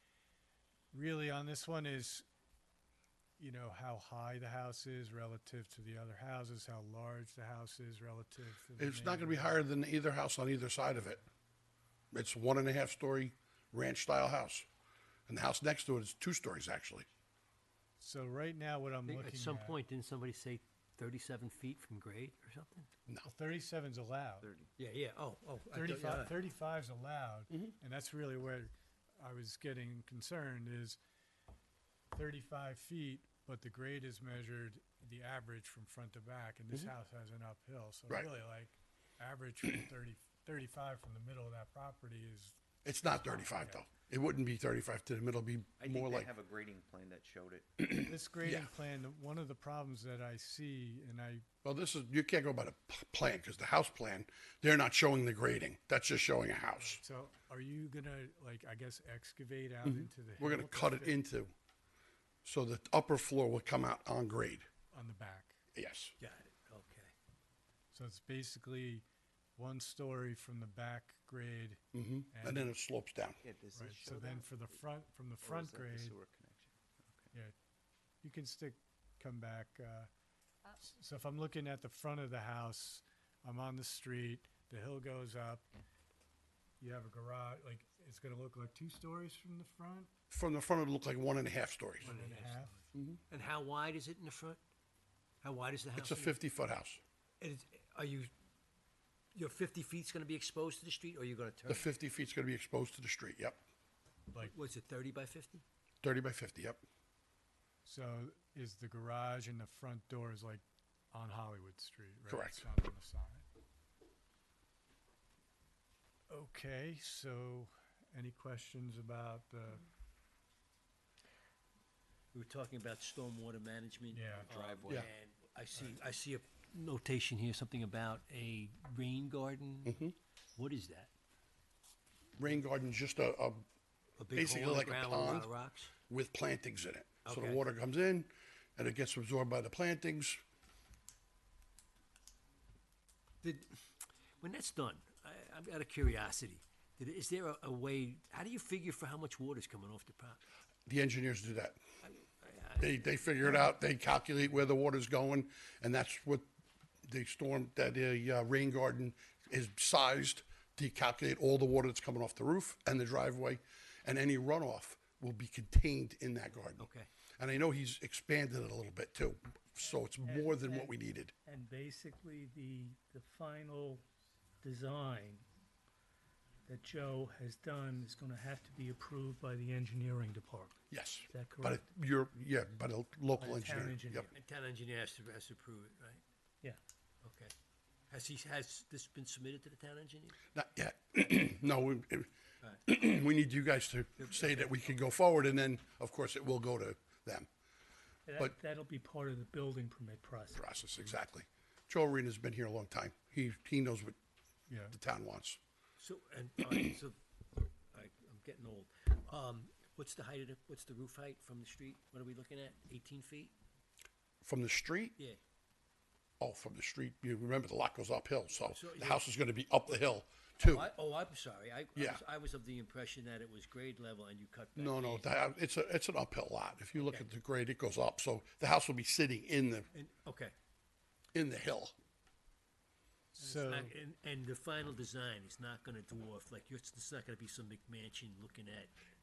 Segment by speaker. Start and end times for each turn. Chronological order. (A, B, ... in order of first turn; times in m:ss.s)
0:00.9-0:02.2 A
0:03.4-0:09.6 A
0:08.8-0:11.2 B
0:12.1-0:14.6 B
0:15.3-0:17.1 B
0:18.0-0:19.8 A
0:19.0-0:22.9 C
0:23.2-0:24.5 A
0:24.4-0:24.7 D
0:24.8-0:26.3 C
0:25.7-0:31.0 A
0:32.1-0:42.6 A
0:42.8-0:46.3 B
0:43.4-0:43.8 A
0:45.8-0:47.7 D
0:47.8-0:48.7 B
0:47.9-0:51.4 A
0:51.6-0:57.0 B
0:56.8-1:01.2 A
0:59.8-1:01.5 B
1:02.4-1:04.6 B
1:04.9-1:05.6 A
1:05.7-1:06.1 B
1:06.2-1:07.1 C
1:07.9-1:09.0 A
1:09.6-1:12.7 A
1:11.9-1:13.4 B
1:13.4-1:14.8 D
1:13.7-1:16.2 A
1:15.4-1:17.3 D
1:18.2-1:20.1 A
1:20.8-1:25.7 A
1:26.8-1:30.1 A
1:30.3-1:32.2 B
1:32.0-1:32.8 C
1:32.0-1:32.8 A
1:32.9-1:33.2 B
1:33.3-1:34.6 C
1:35.4-1:36.4 C
1:36.0-1:37.0 B
1:37.4-1:38.3 C
1:39.3-1:41.9 C
1:41.7-1:43.6 B
1:44.4-1:45.6 C
1:46.0-1:46.8 B
1:47.8-1:53.4 A
1:52.3-1:52.7 B
1:56.3-1:59.8 A
2:02.3-2:10.0 C
2:04.1-2:04.5 A
2:04.4-2:05.0 D
2:09.8-2:10.2 B
2:10.6-2:11.1 C
2:12.4-2:13.6 B
2:14.2-2:15.9 C
2:14.3-2:15.5 B
2:16.1-2:20.4 B
2:17.2-2:17.6 C
2:23.4-2:23.7 C
2:24.4-2:30.4 C
2:30.8-2:31.8 B
2:32.0-2:33.5 C
2:32.8-2:36.4 B
2:37.0-2:51.3 B
2:46.8-2:47.1 C
2:50.2-2:54.0 E
2:54.6-2:55.5 E
2:56.7-3:01.8 E
3:00.9-3:04.3 B
3:03.4-3:04.3 E
3:04.3-3:06.2 C
3:07.2-3:07.5 C
3:08.1-3:10.4 C
3:10.5-3:12.3 B
3:12.8-3:17.5 B
3:14.2-3:14.9 C
3:18.3-3:20.6 E
3:20.5-3:24.2 B
3:24.7-3:25.0 A
3:24.9-3:25.6 B
3:26.0-3:33.5 C
3:34.4-3:35.2 B
3:36.4-3:40.9 B
3:38.7-3:39.3 C
3:39.8-3:45.4 C
3:42.0-3:42.2 B
3:44.8-3:49.9 B
3:46.9-3:47.3 C
3:49.9-3:50.5 C
3:51.3-3:51.9 B
3:53.3-3:53.9 A
3:53.4-3:58.9 C